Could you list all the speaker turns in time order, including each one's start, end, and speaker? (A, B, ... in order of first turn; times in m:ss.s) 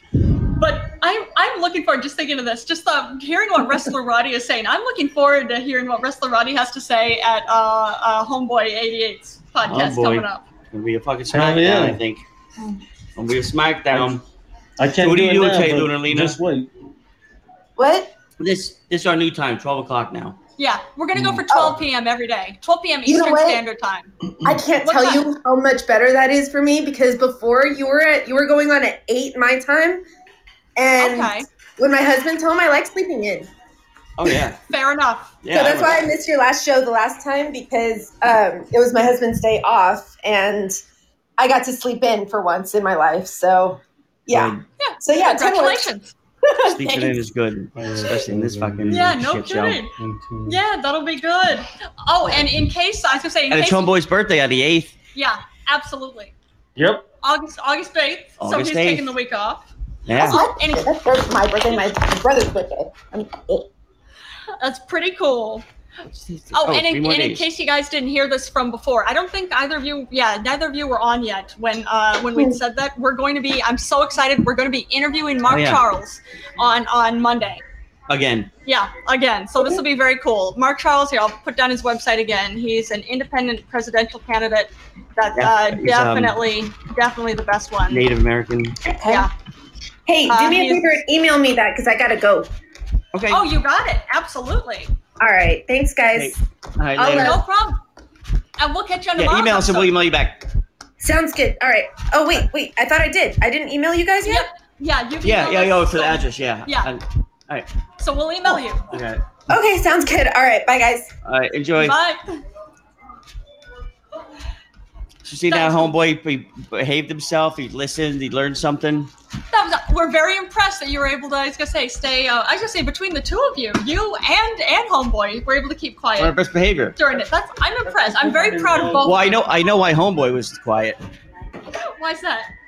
0:00.5-0:10.4 A
0:09.6-0:12.2 B
0:11.3-0:12.0 C
0:13.2-0:14.2 B
0:14.8-0:16.7 C
0:15.0-0:16.4 B
0:17.8-0:18.1 D
0:18.4-0:20.4 B
0:20.6-0:24.1 A
0:21.5-0:21.8 D
0:23.1-0:23.6 D
0:24.4-0:30.0 D
0:24.8-0:25.2 A
0:30.8-0:33.5 D
0:31.0-0:31.5 A
0:34.2-0:34.6 B
0:34.7-0:35.4 A
0:35.4-0:36.0 B
0:35.5-0:40.8 D
0:41.4-0:45.9 D
0:44.3-0:44.6 B
0:44.8-0:46.1 A
0:46.4-0:47.2 D
0:46.6-0:49.8 B
0:47.8-0:49.1 C
0:48.9-0:49.9 A
0:50.0-0:50.6 C
0:50.5-0:53.9 A
0:53.5-0:55.0 B
0:55.1-0:56.3 A
0:56.8-0:57.0 C
0:57.2-1:00.9 A
0:58.4-0:59.1 B
1:00.1-1:00.4 B
1:00.2-1:03.7 D
1:04.6-1:05.6 A
1:06.1-1:07.5 B
1:06.5-1:17.6 A
1:15.5-1:15.8 B
1:18.1-1:18.5 B
1:18.7-1:28.1 A
1:25.4-1:26.4 B
1:27.9-1:28.8 B
1:28.8-1:29.3 D
1:30.1-1:32.5 D
1:30.3-1:31.0 A
1:33.1-1:33.4 B
1:33.3-1:34.9 A
1:35.2-1:36.4 D
1:36.1-1:37.4 B
1:37.0-1:37.4 D
1:37.2-1:37.8 A
1:38.6-1:39.9 A
1:39.2-1:40.4 B
1:41.0-1:44.5 D
1:44.2-1:46.9 A
1:45.2-1:47.7 B
1:48.0-1:48.9 A
1:48.9-1:49.6 B
1:49.5-1:51.1 D
1:51.2-1:52.0 B
1:51.8-1:52.4 A
1:55.2-1:59.1 B
1:55.5-1:55.9 A
1:59.5-2:06.4 A
2:06.2-2:07.0 B
2:07.0-2:09.4 A
2:07.8-2:09.2 C
2:09.0-2:11.0 B
2:11.8-2:12.5 A